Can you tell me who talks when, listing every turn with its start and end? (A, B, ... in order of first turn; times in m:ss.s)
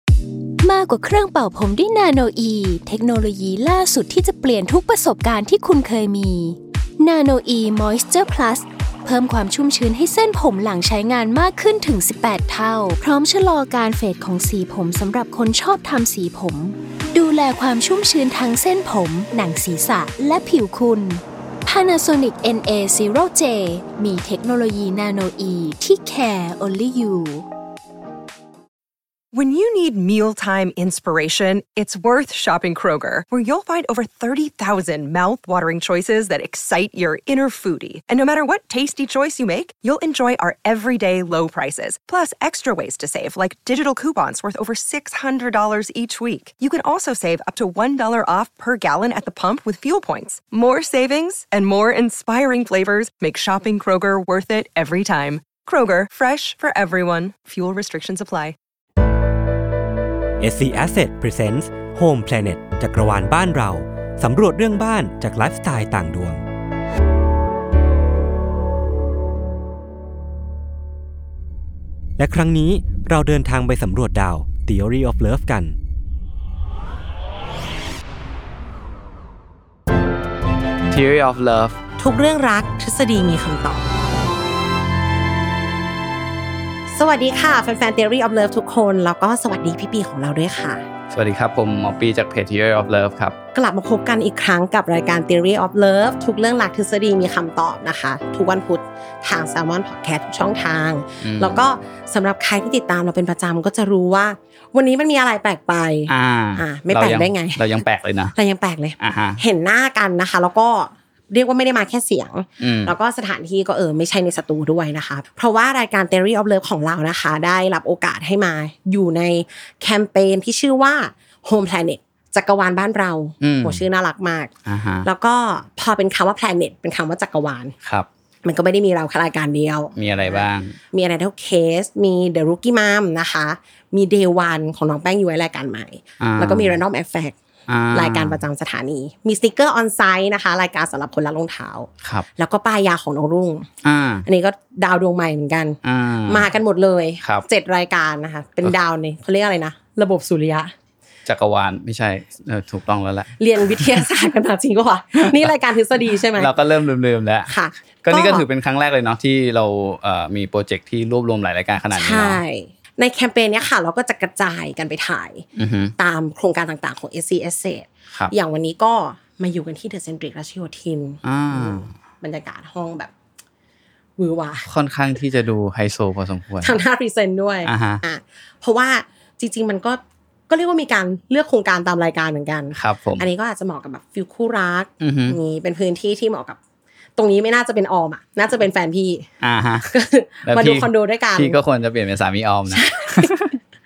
0:00.6-0:27.4 A
0:29.3-0:58.6 B
1:00.4-1:06.4 C
1:12.2-1:15.8 C
1:20.9-1:21.8 D
1:22.0-1:23.8 E
1:26.9-1:30.8 E
1:31.1-1:33.3 D
1:33.5-1:47.8 E
1:41.2-1:41.6 D
1:46.1-1:48.3 D
1:48.3-2:04.5 E
1:49.0-1:49.4 D
1:52.6-1:52.9 D
2:03.4-2:03.8 D
2:04.7-2:05.1 D
2:05.0-2:07.7 E
2:08.4-2:17.4 E
2:10.0-2:10.8 D
2:16.2-2:16.8 D
2:17.7-2:18.4 D
2:17.9-2:23.7 E
2:23.8-2:24.2 D
2:24.2-2:25.8 E
2:25.8-2:26.5 D
2:26.3-2:30.7 E
2:31.2-2:34.0 D
2:33.4-2:36.5 E
2:35.2-2:35.5 D
2:36.4-2:37.5 D
2:37.5-2:38.4 E
2:38.0-2:42.4 D
2:41.9-2:45.4 E
2:45.6-2:45.9 D
2:46.0-2:53.1 E
2:51.2-2:51.9 D
2:54.2-2:54.7 E
2:54.6-2:56.8 D
2:56.6-3:06.6 E
2:57.6-2:58.0 D
3:02.8-3:03.2 D
3:05.0-3:05.4 D
3:07.2-3:09.2 E
3:09.4-3:09.9 D
3:09.8-3:11.6 E
3:10.4-3:13.6 D
3:12.7-3:13.6 E